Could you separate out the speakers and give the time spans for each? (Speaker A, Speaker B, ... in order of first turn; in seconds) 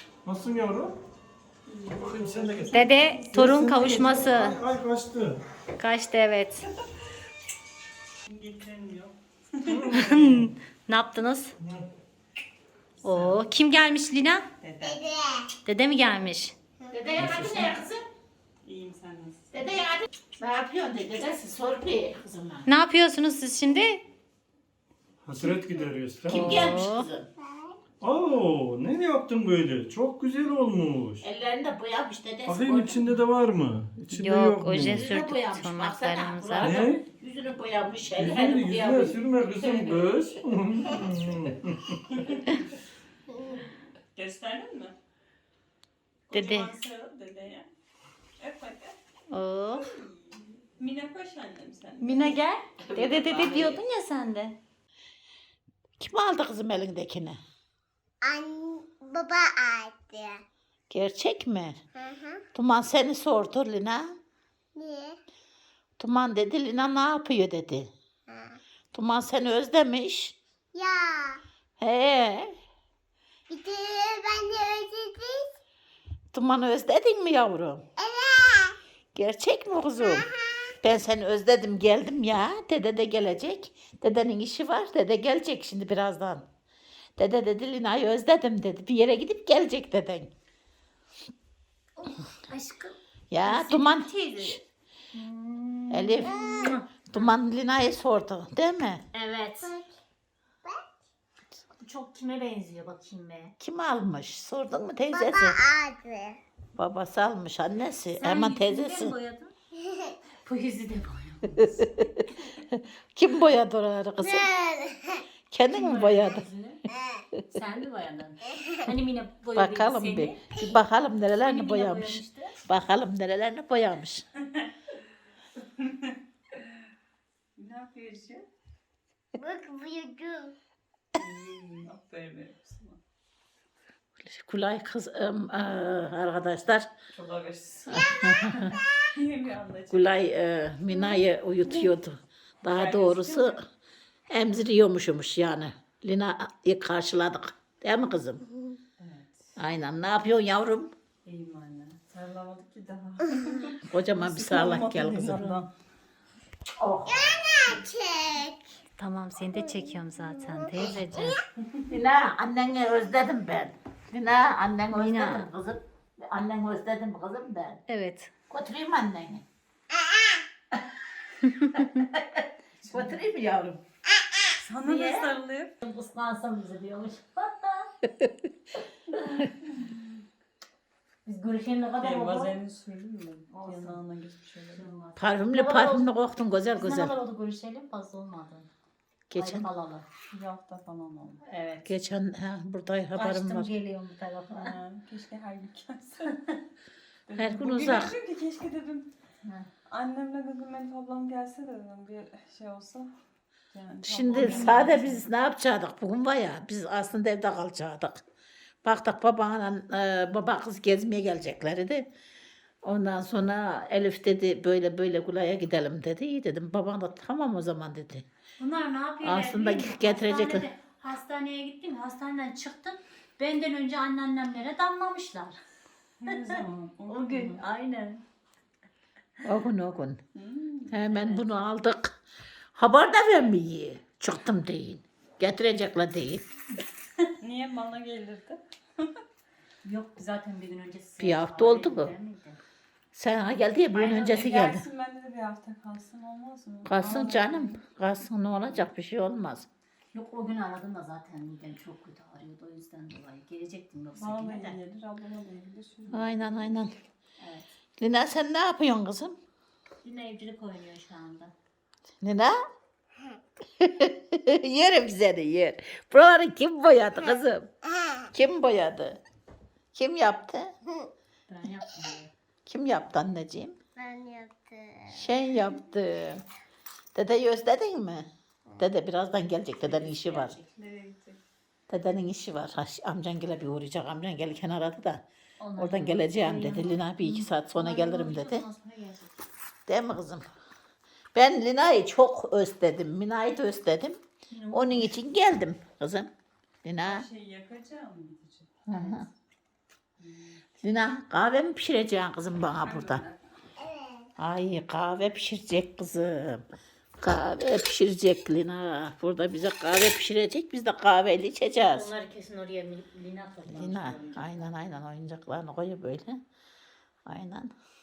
Speaker A: 0.2-1.0, 1.9-5.4, 9.6-10.5, 17.2-17.7, 25.2-26.7, 28.0-31.2, 32.5-35.2, 36.5-37.0, 38.2-42.0
Speaker B: 1.7-2.7, 8.2-9.9, 13.0-13.3, 14.6-15.0, 18.6-19.7, 42.2-42.6, 44.1-45.0, 46.3-47.7, 48.4-49.0, 49.7-52.4, 125.6-126.6, 127.5-128.4, 131.1-133.0, 137.1-140.2, 142.7-143.6, 149.0-149.5, 151.2-155.7, 172.8-173.2, 174.5-175.7, 182.0-184.9, 190.2-191.4, 194.5-196.6, 197.3-199.1, 199.9-203.1, 203.7-205.3, 226.2-227.6, 230.3-231.0, 237.4-239.2, 243.9-247.8, 254.2-256.7, 280.8-281.4, 297.0-298.8, 300.2-300.6, 302.8-303.4
Speaker C: 2.7-4.6, 5.8-6.7, 9.9-11.5, 13.0-14.4, 15.6-16.5, 22.6-24.0, 26.3-27.1, 34.1-36.8, 46.3-46.7, 49.3-49.9, 52.0-54.5, 92.0-94.6, 95.1-97.3, 99.1-99.7, 101.8-103.5, 108.1-109.5, 110.4-111.9, 115.7-116.8, 117.5-120.4, 121.4-122.6, 159.0-161.4, 164.9-165.5, 167.9-168.3, 174.8-177.9, 181.2-182.6, 183.5-184.0, 184.8-186.1, 186.7-188.7, 189.3-190.1, 191.4-191.9, 193.1-194.8, 199.4-199.7, 204.4-204.8, 218.6-225.6, 226.3-228.2, 231.1-231.4, 239.8-242.6, 250.1-254.8, 257.4-257.6, 260.0-261.5, 271.5-272.3, 279.8-280.7, 285.6-289.4, 294.5-295.1, 298.9-299.3, 311.9-314.7
Speaker D: 14.8-15.5, 58.2-60.4, 62.1-62.3, 64.8-65.2, 70.7-71.4, 73.5-75.5, 78.0-78.8, 99.6-99.9, 105.1-106.4, 114.2-115.2, 129.4-130.5, 157.1-158.7, 274.0-275.1
Speaker E: 16.9-18.0, 19.5-22.7, 26.3-27.3, 31.2-33.2, 34.8-40.3, 52.8-53.8, 56.0-57.4, 60.9-61.8, 62.5-64.1, 66.0-67.9, 68.9-70.3, 71.8-72.5, 76.3-77.8, 79.1-86.4, 87.2-90.3, 93.3-94.6, 95.9-99.0, 103.6-105.6, 106.8-109.1, 111.6-114.6, 115.5-116.5, 119.5-124.2, 134.2-136.9, 137.9-138.7, 139.9-143.6, 144.3-148.4, 149.6-150.9, 153.8-155.7, 156.8-157.4, 161.9-167.8, 168.5-169.4, 171.6-173.8, 185.2-187.1, 189.3-189.7, 191.8-193.7, 197.3-198.1, 204.0-208.2, 208.8-212.1, 212.8-218.2, 219.2-220.7, 229.4-230.2, 230.9-232.1, 232.8-236.4, 241.2-242.1, 243.1-244.8, 246.8-249.7, 256.1-256.9, 258.0-259.4, 262.2-262.6, 263.8-267.7, 268.3-269.2, 269.9-270.7, 272.6-273.8, 275.1-276.4, 277.1-280.5, 281.9-285.2, 285.8-288.6, 289.9-290.5, 291.3-294.2, 294.7-296.3, 296.8-297.2, 298.9-299.3, 300.8-303.2, 304.4-306.6, 307.2-312.1, 313.7-316.4, 317.2-317.7